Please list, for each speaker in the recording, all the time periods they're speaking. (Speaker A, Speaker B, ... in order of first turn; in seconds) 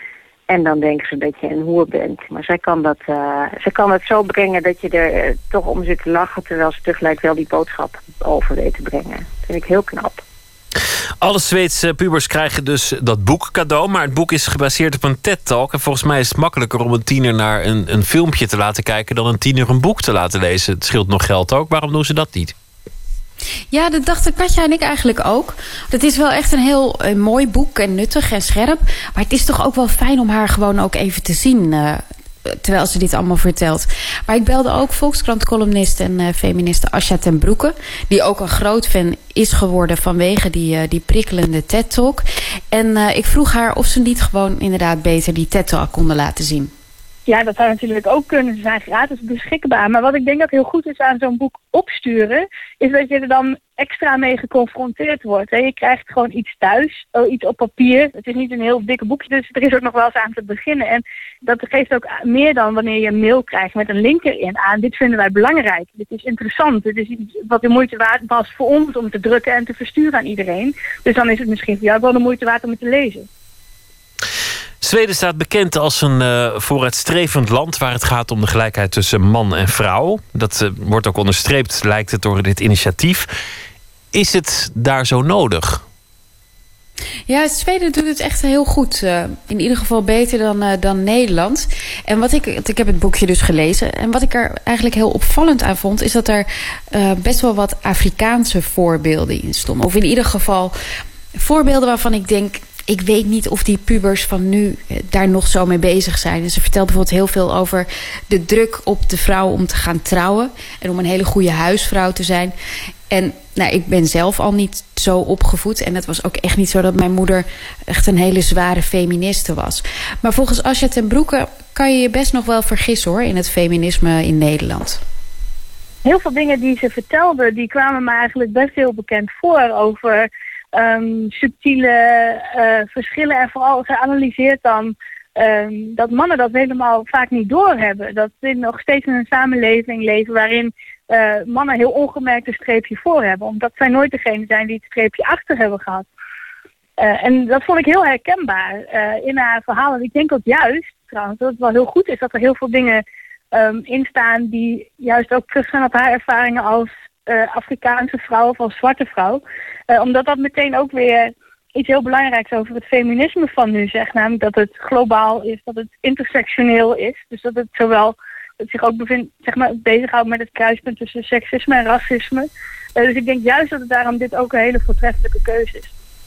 Speaker A: 0.5-10.2
Speaker B: 11.2-22.5, 74.8-83.3, 84.1-85.8
Speaker C: 23.7-46.7, 87.3-100.7, 101.4-112.5, 113.1-125.0
Speaker D: 47.3-73.3, 126.0-146.1, 147.0-153.0, 153.5-175.9